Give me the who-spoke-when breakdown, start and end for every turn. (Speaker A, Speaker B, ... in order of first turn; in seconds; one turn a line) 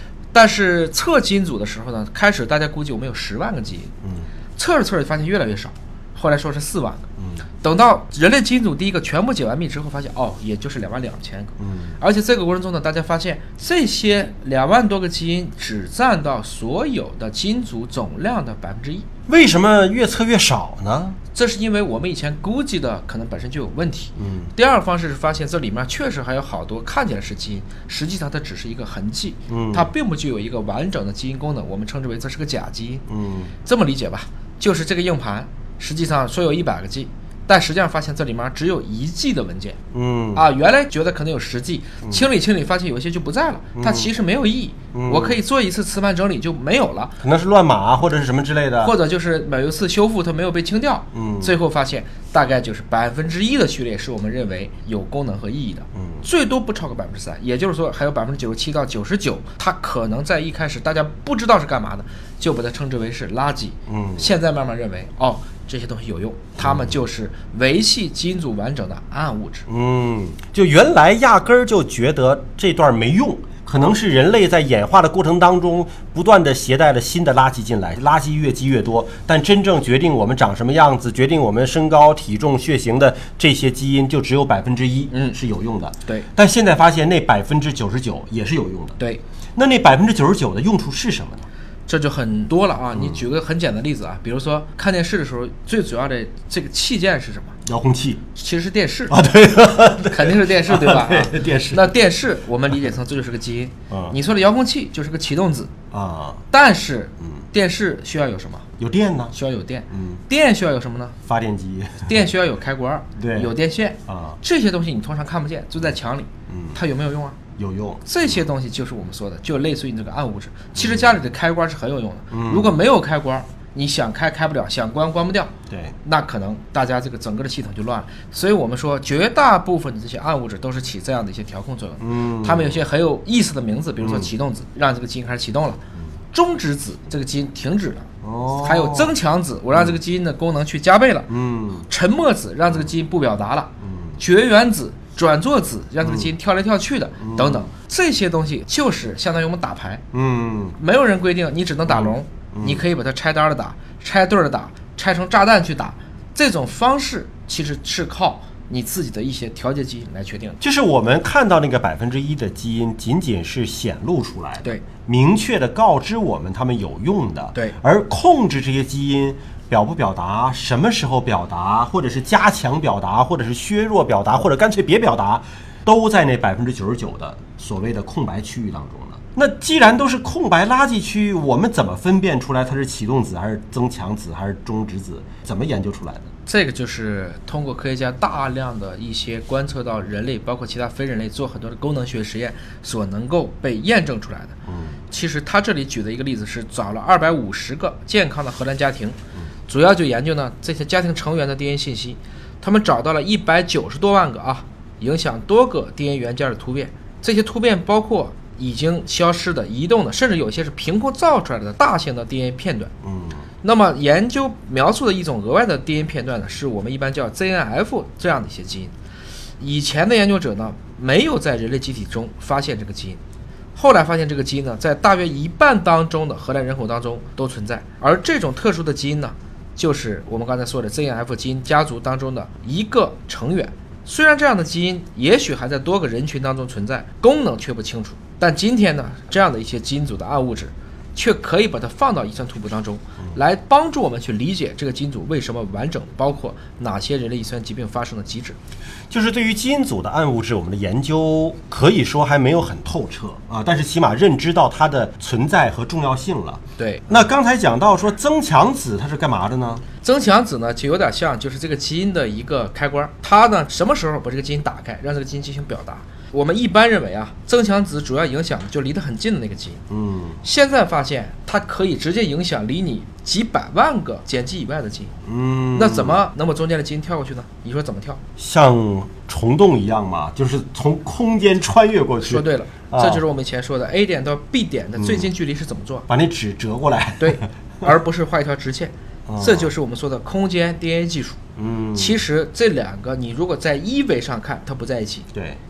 Speaker A: 0.3-3.9
Speaker B: 4.0-4.3
Speaker A: 4.5-7.0
Speaker B: 7.2-7.4
Speaker A: 7.6-19.1
Speaker B: 11.6-12.0
Speaker B: 19.3-21.2
Speaker A: 21.3-33.0
Speaker B: 24.2-24.5
Speaker B: 29.5-29.9
Speaker B: 33.1-33.5
Speaker A: 33.6-39.8
Speaker B: 39.9-40.4
Speaker A: 40.3-47.1
Speaker B: 43.8-44.1
Speaker B: 44.9-45.4
Speaker B: 47.2-48.9
Speaker A: 48.8-69.7
Speaker B: 51.1-51.5
Speaker B: 56.0-56.3
Speaker B: 63.9-64.3
Speaker B: 66.6-67.0
Speaker B: 69.7-89.0
Speaker A: 85.1-85.4
Speaker B: 89.5-91.5
Speaker A: 91.9-97.5
Speaker B: 92.9-93.2
Speaker B: 97.6-98.2
Speaker A: 98.3-99.2
Speaker B: 99.1-102.0
Speaker A: 100.0-105.7
Speaker B: 103.9-104.2
Speaker B: 105.9-106.4
Speaker A: 106.5-108.7
Speaker B: 108.8-109.3
Speaker A: 109.3-111.2
Speaker B: 109.9-110.2
Speaker B: 111.2-112.2
Speaker A: 112.0-117.4
Speaker B: 113.2-113.5
Speaker B: 114.1-114.4
Speaker B: 116.5-116.8
Speaker B: 117.6-118.3
Speaker A: 118.0-125.5
Speaker B: 120.7-121.2
Speaker B: 122.3-122.8
Speaker B: 125.7-126.0
Speaker A: 126.0-135.8
Speaker B: 132.0-132.8
Speaker B: 134.0-134.3
Speaker A: 136.3-141.3
Speaker B: 138.2-139.1
Speaker B: 141.3-141.9
Speaker A: 141.9-150.0
Speaker B: 143.8-144.2
Speaker B: 146.0-146.3
Speaker B: 147.2-147.7
Speaker B: 150.1-150.8
Speaker A: 150.8-160.6
Speaker B: 151.8-152.8
Speaker B: 160.6-186.3
Speaker A: 186.4-194.6
Speaker B: 194.7-195.0
Speaker A: 195.1-212.9
Speaker B: 213.0-213.4
Speaker A: 213.6-218.9
Speaker A: 219.6-223.2
Speaker A: 223.7-248.6
Speaker B: 249.1-259.8
Speaker A: 256.8-257.2
Speaker A: 260.0-269.8
Speaker B: 269.9-270.4
Speaker A: 270.4-275.1
Speaker B: 275.2-276.2
Speaker A: 275.7-278.2
Speaker B: 278.4-283.2
Speaker A: 282.2-286.1
Speaker B: 285.0-285.3
Speaker B: 286.1-287.5
Speaker A: 287.2-291.4
Speaker B: 289.3-289.7
Speaker B: 291.6-292.2
Speaker A: 291.9-295.3
Speaker B: 295.3-295.6